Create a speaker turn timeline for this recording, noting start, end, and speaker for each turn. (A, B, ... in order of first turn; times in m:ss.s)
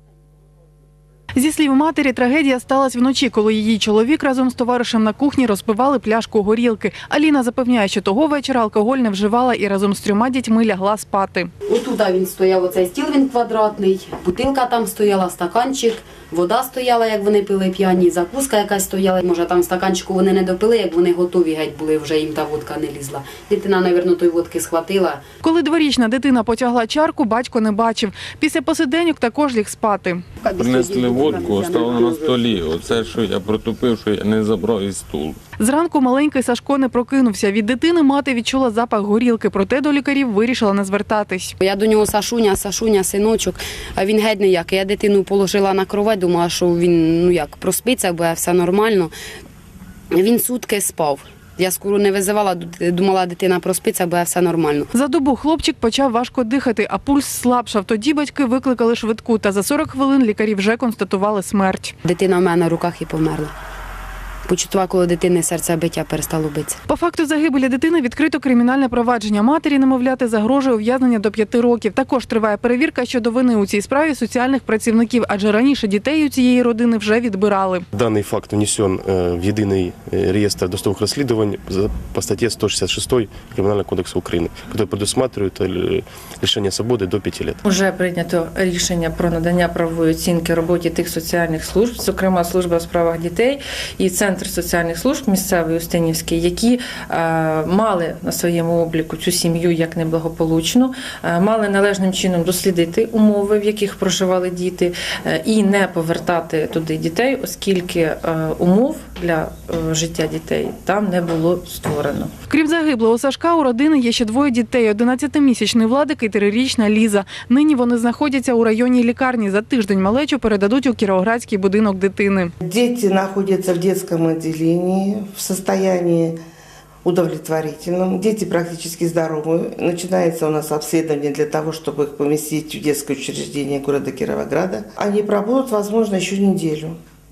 0:01.4-0:11.5 A
0:11.7-0:25.2 B
0:25.4-0:30.2 A
0:30.4-0:32.6 B
0:30.6-0:35.4 C
0:35.6-0:41.5 A
0:41.6-0:49.1 B
0:50.1-0:54.9 B
0:54.9-1:01.9 A
1:02.0-1:03.5 B
1:04.5-1:06.8 B
1:06.9-1:17.8 A
1:17.9-1:27.6 D
1:27.6-1:52.3 E
1:52.5-2:02.5 A
2:02.6-2:06.4 F
2:07.0-2:17.0 F